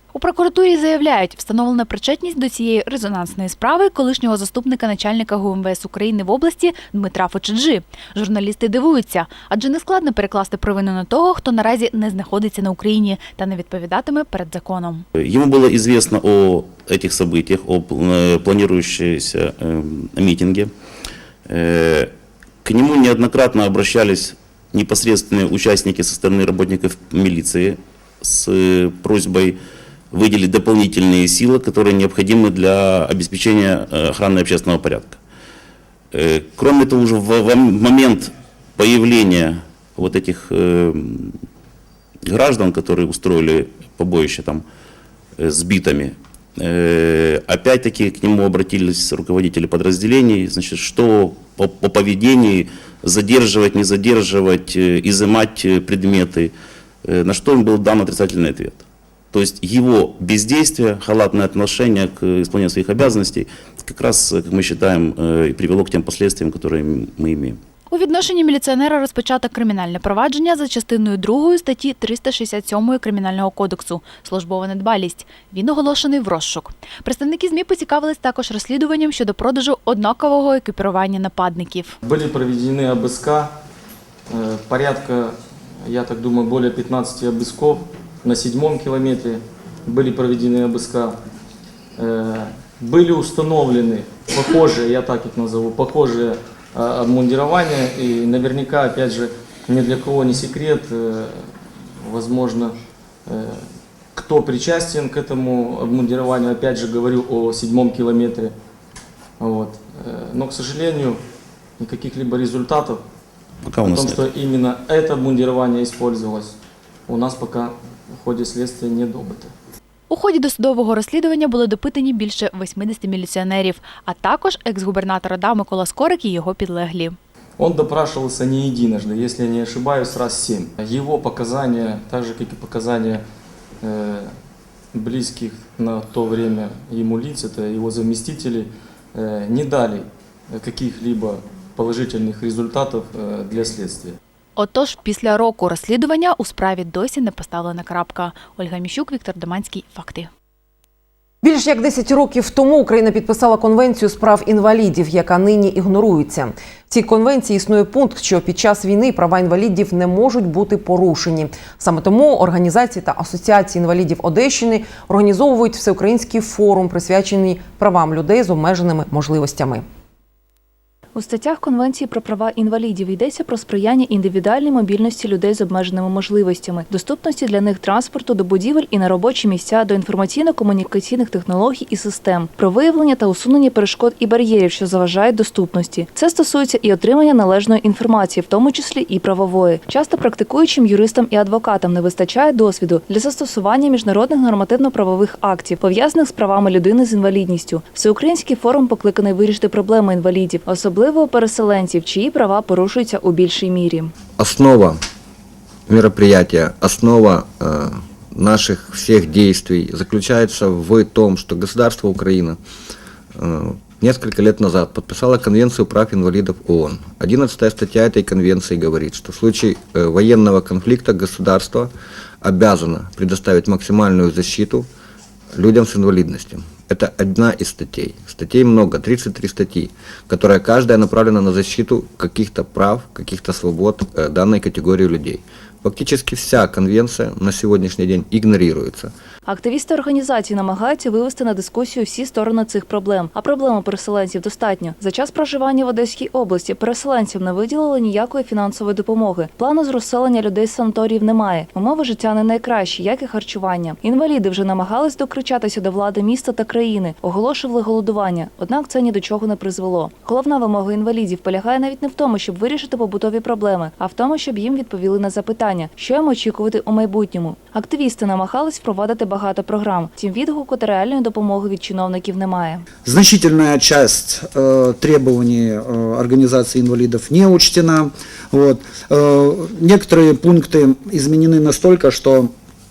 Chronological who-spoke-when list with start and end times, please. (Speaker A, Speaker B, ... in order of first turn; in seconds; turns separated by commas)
Speaker A: 0.1-15.1, Speaker B: 15.2-20.7, Speaker B: 21.5-22.1, Speaker B: 22.6-29.6, Speaker B: 30.1-35.2, Speaker B: 36.1-41.4, Speaker B: 42.3-44.6, Speaker B: 45.4-56.5, Speaker B: 57.0-67.6, Speaker A: 67.9-82.0, Speaker C: 82.0-83.5, Speaker C: 84.3-91.2, Speaker C: 92.0-102.8, Speaker C: 103.3-108.5, Speaker C: 109.4-111.2, Speaker C: 111.8-113.0, Speaker B: 113.6-114.2, Speaker C: 113.8-116.6, Speaker C: 117.1-119.5, Speaker A: 120.1-127.2, Speaker C: 127.6-133.2, Speaker C: 133.8-134.3, Speaker C: 134.9-144.2, Speaker A: 144.6-150.3, Speaker D: 151.4-169.8, Speaker E: 171.2-204.2, Speaker F: 204.4-205.0, Speaker F: 205.9-212.6, Speaker F: 213.3-224.9, Speaker F: 225.5-239.1, Speaker E: 239.5-272.9, Speaker G: 273.1-282.5